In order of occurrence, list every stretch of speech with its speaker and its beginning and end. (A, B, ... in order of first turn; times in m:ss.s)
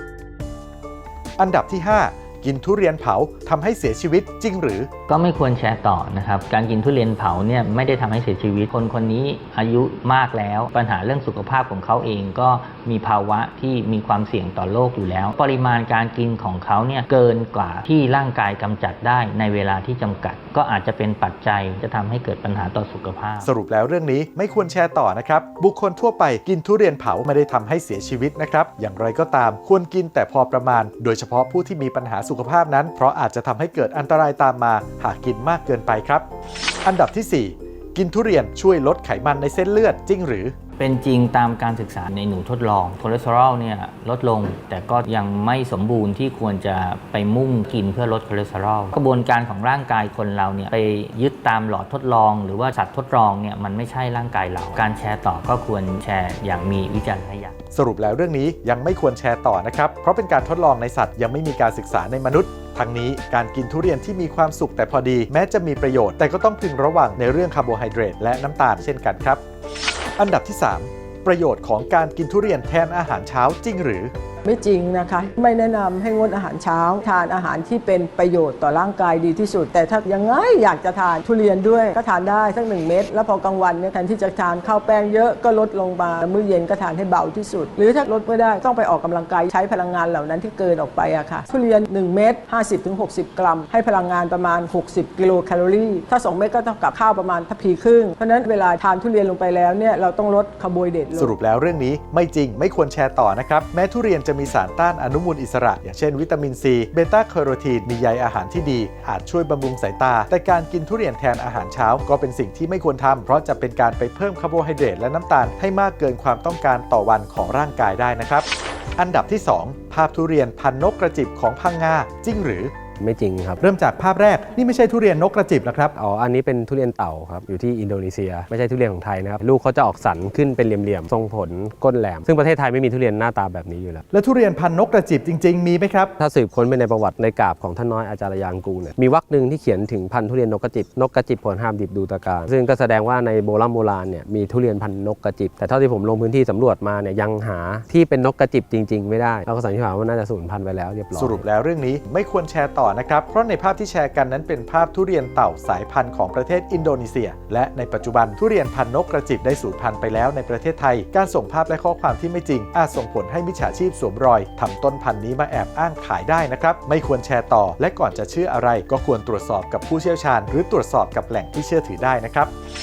0:01.4-0:04.9 A
0:05.1-0:23.5 B
0:23.4-0:36.3 A
0:36.8-0:40.5 A
0:40.8-0:57.6 B
0:57.7-1:09.4 A
1:10.2-1:14.1 A
1:14.4-1:41.3 C
1:41.2-1:58.5 A
1:59.0-2:02.7 A
2:03.0-2:03.6 D
2:03.6-2:06.0 A
2:06.0-2:14.0 D
2:14.1-2:16.1 A
2:16.2-2:31.4 D
2:31.2-2:52.5 A